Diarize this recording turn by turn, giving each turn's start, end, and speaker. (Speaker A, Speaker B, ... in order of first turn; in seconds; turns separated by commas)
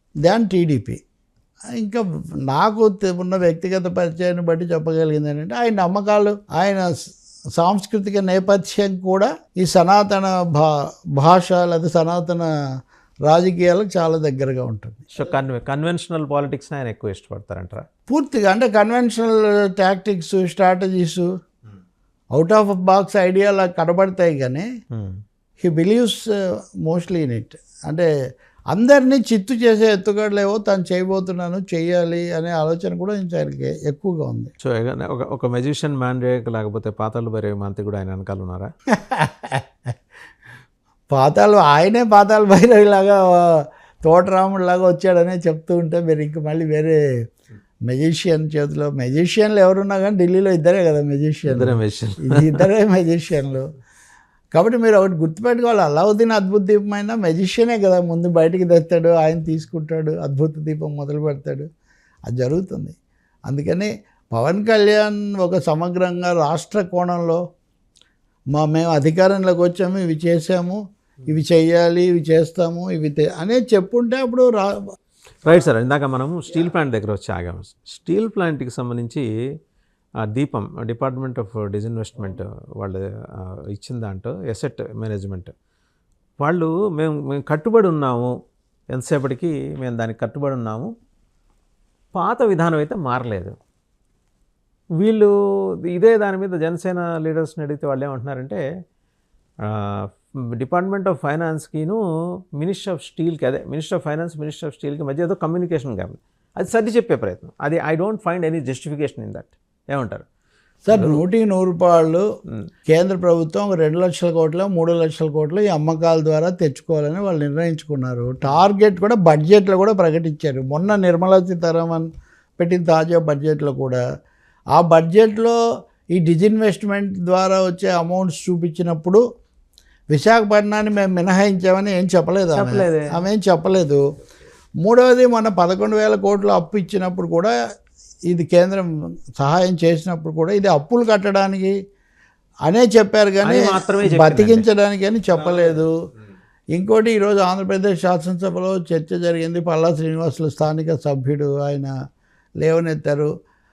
Speaker A: 0.2-1.0, Speaker A: 1.8-6.9, Speaker A: 7.6-12.5, Speaker A: 13.3-15.1, Speaker B: 15.2-17.9, Speaker A: 18.1-21.3, Speaker A: 22.3-24.7, Speaker B: 24.9-25.2, Speaker A: 25.6-26.3, Speaker A: 26.9-28.1, Speaker A: 28.7-34.5, Speaker B: 34.6-38.7, Speaker A: 38.9-39.6, Speaker A: 41.1-47.0, Speaker A: 47.9-53.7, Speaker B: 51.5-52.7, Speaker A: 54.5-61.7, Speaker A: 62.3-63.0, Speaker A: 63.5-67.4, Speaker A: 68.5-74.8, Speaker B: 75.5-79.2, Speaker B: 80.2-85.5, Speaker B: 86.4-88.3, Speaker B: 88.9-90.9, Speaker B: 92.2-93.6, Speaker B: 95.0-95.3, Speaker B: 95.9-98.6, Speaker B: 99.6-100.1, Speaker B: 100.6-102.0, Speaker B: 102.6-110.3, Speaker A: 110.9-112.2, Speaker B: 110.9-111.2, Speaker A: 112.9-122.1, Speaker A: 122.6-124.0, Speaker A: 124.8-125.6, Speaker A: 126.2-129.2, Speaker A: 130.1-134.0, Speaker B: 132.6-133.1, Speaker A: 134.8-137.5, Speaker A: 138.3-141.7, Speaker A: 142.7-145.9, Speaker B: 143.4-144.7, Speaker A: 146.7-151.9, Speaker A: 152.6-153.3